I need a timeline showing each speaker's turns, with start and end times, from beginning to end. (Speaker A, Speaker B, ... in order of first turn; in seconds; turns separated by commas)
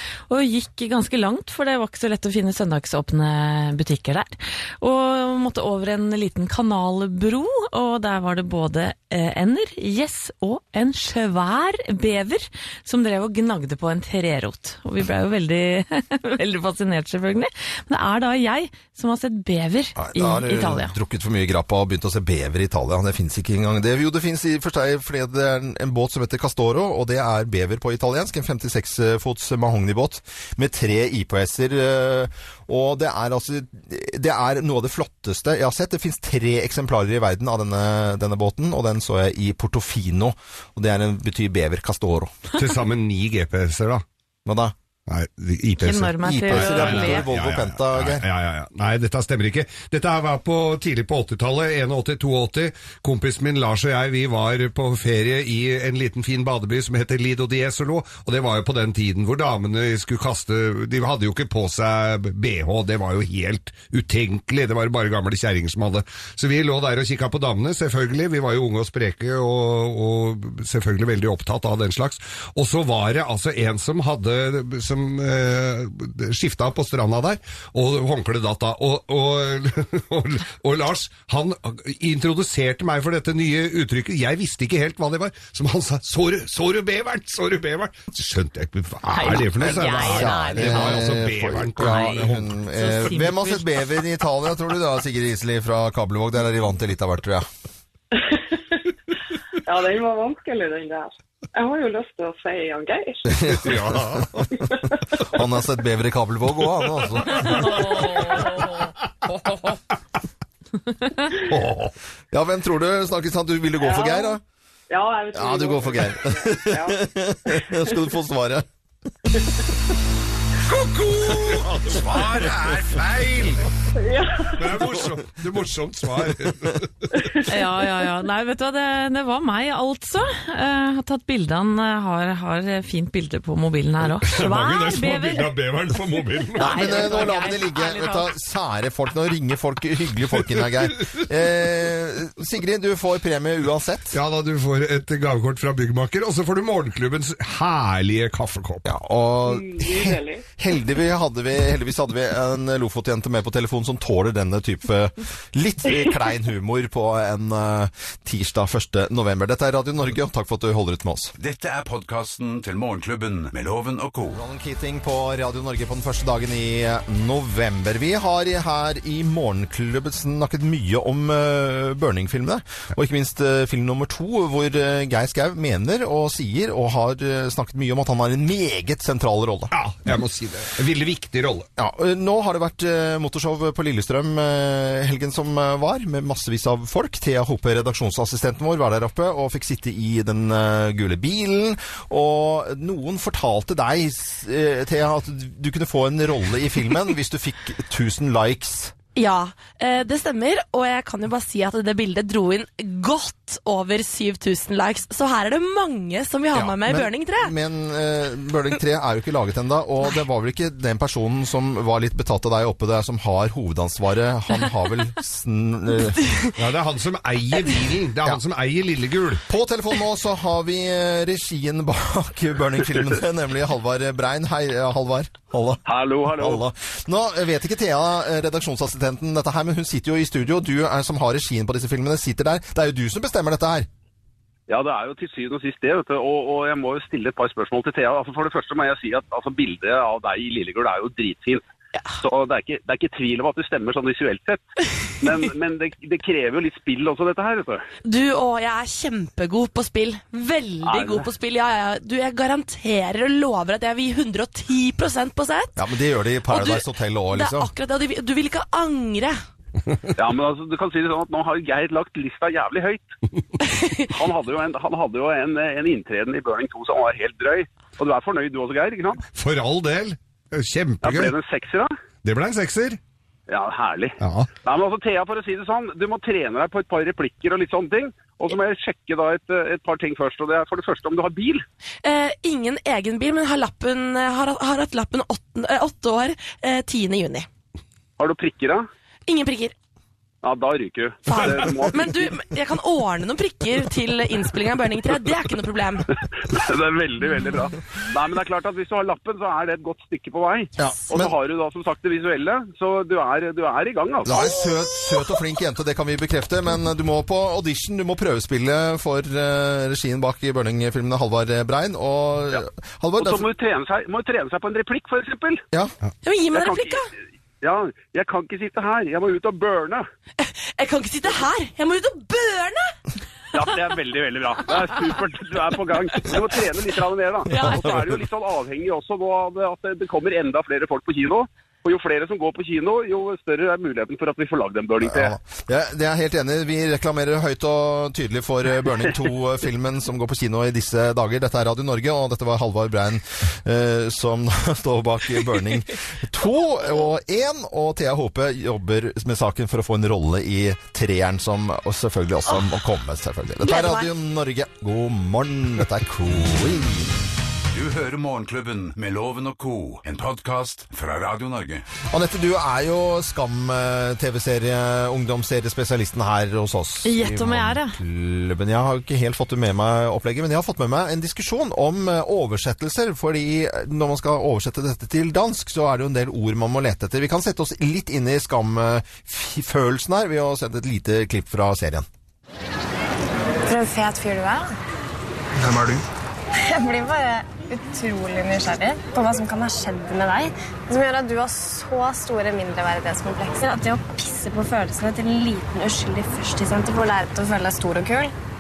Speaker A: 0.3-20.9, Speaker B: 19.9-42.4, Speaker C: 42.5-44.0, Speaker B: 44.5-44.7, Speaker C: 45.1-92.5, Speaker A: 45.8-47.3, Speaker B: 46.2-48.2, Speaker A: 89.1-91.0, Speaker B: 89.6-97.5, Speaker A: 91.8-93.7, Speaker D: 98.2-98.8, Speaker D: 99.7-103.3, Speaker B: 103.3-107.9, Speaker C: 103.4-104.6, Speaker D: 104.7-105.2, Speaker C: 107.3-109.8, Speaker A: 107.5-108.7, Speaker C: 111.4-111.9, Speaker B: 112.3-114.4, Speaker D: 113.8-118.1, Speaker B: 115.3-118.7, Speaker C: 120.7-123.6, Speaker D: 124.0-124.9, Speaker C: 124.5-127.3, Speaker A: 127.5-135.5, Speaker C: 134.1-137.1, Speaker A: 136.5-138.3, Speaker B: 136.6-144.2, Speaker C: 144.1-148.9, Speaker B: 148.8-161.3, Speaker D: 149.4-150.5, Speaker E: 161.4-164.4, Speaker B: 164.3-179.7, Speaker C: 179.7-181.7, Speaker B: 181.8-198.9, Speaker F: 199.2-207.5, Speaker B: 206.5-216.2, Speaker C: 216.6-219.4, Speaker B: 219.5-233.9, Speaker G: 225.9-226.6, Speaker G: 234.7-241.6, Speaker G: 242.2-244.6, Speaker G: 245.2-247.8, Speaker F: 248.0-255.8, Speaker G: 250.8-251.2, Speaker B: 255.8-257.7, Speaker F: 256.5-259.4, Speaker G: 260.1-263.1, Speaker F: 263.7-264.1, Speaker G: 264.1-269.2, Speaker C: 269.3-271.3, Speaker G: 271.0-272.0, Speaker C: 272.2-273.0, Speaker G: 273.5-281.6, Speaker C: 274.2-274.5, Speaker F: 282.0-287.5, Speaker G: 288.2-288.9, Speaker F: 289.3-289.7, Speaker G: 290.4-292.3, Speaker F: 291.3-296.1, Speaker G: 296.5-304.5, Speaker B: 300.8-301.3, Speaker B: 304.2-313.4, Speaker G: 313.2-315.6, Speaker F: 316.2-317.1, Speaker G: 316.5-317.0, Speaker G: 317.6-320.1, Speaker F: 320.4-322.9, Speaker G: 323.5-335.3, Speaker F: 326.3-326.8, Speaker F: 327.4-327.9, Speaker B: 327.6-328.1, Speaker B: 335.0-357.1, Speaker F: 353.6-354.1, Speaker E: 357.7-361.9, Speaker B: 362.1-382.1, Speaker A: 367.0-368.0, Speaker H: 383.6-384.7, Speaker C: 385.6-386.0, Speaker H: 386.7-398.3